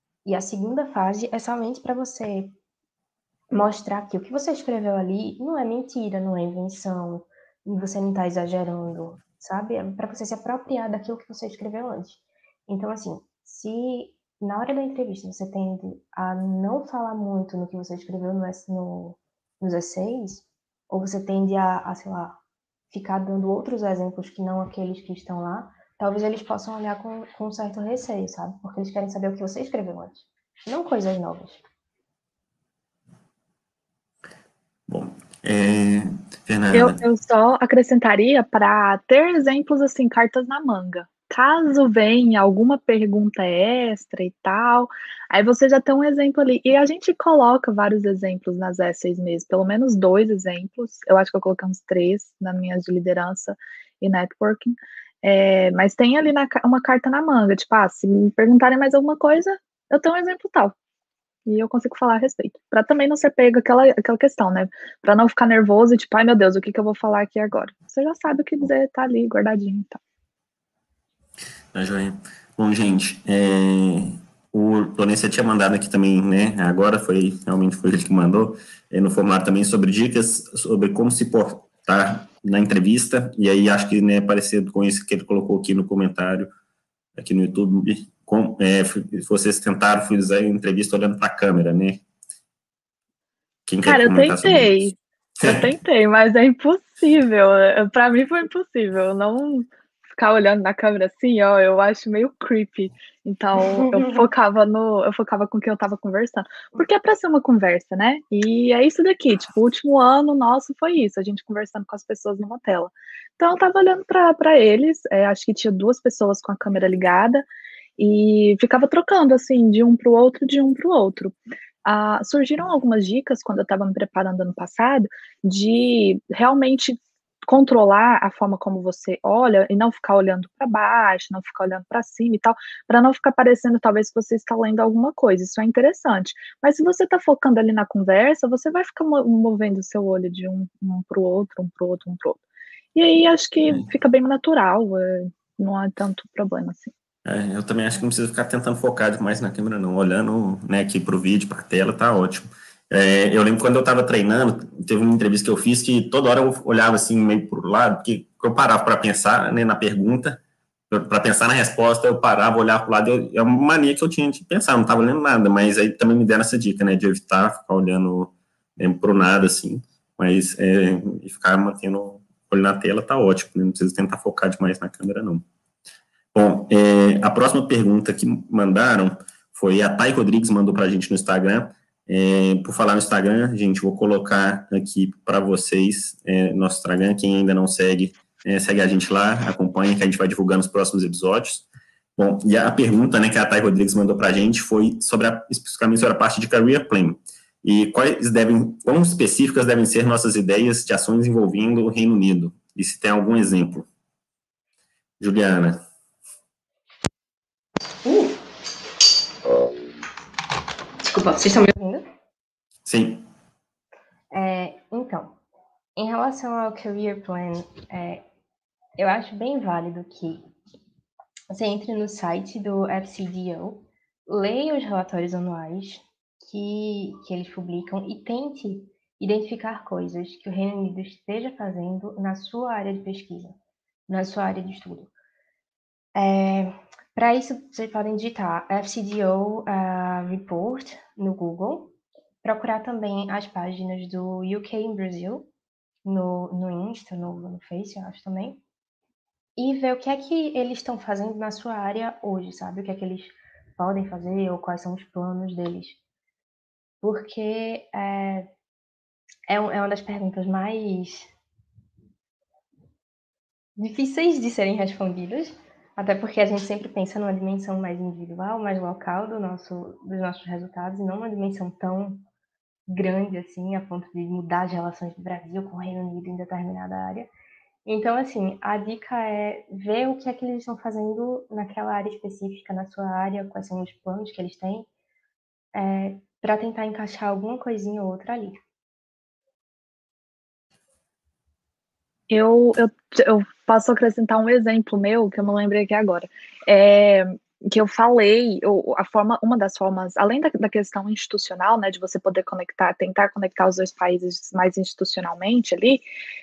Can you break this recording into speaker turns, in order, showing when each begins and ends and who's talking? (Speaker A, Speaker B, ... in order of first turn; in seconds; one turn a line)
Speaker A: 0.2-2.5
Speaker A: 3.5-22.4
Speaker A: 22.9-31.6
Speaker B: 34.9-37.0
Speaker C: 36.7-60.7
Speaker C: 61.5-70.0
Speaker B: 71.7-86.5
Speaker B: 87.2-92.0
Speaker B: 93.7-95.7
Speaker C: 93.8-117.4
Speaker A: 103.9-104.2
Speaker C: 118.0-142.4
Speaker C: 142.9-146.9
Speaker B: 147.2-175.4
Speaker B: 176.3-191.7
Speaker B: 192.2-203.9
Speaker B: 205.2-205.8
Speaker A: 208.1-208.3
Speaker A: 211.0-212.1
Speaker B: 212.8-213.2
Speaker A: 214.3-215.4
Speaker A: 215.9-218.2
Speaker A: 219.0-220.4
Speaker A: 221.5-235.1
Speaker A: 236.1-245.5
Speaker A: 246.1-248.6
Speaker A: 249.6-256.0
Speaker A: 257.0-258.5
Speaker A: 259.5-261.3
Speaker A: 263.8-272.2
Speaker A: 272.9-277.3
Speaker A: 277.9-284.9
Speaker A: 285.7-288.6
Speaker C: 292.3-306.1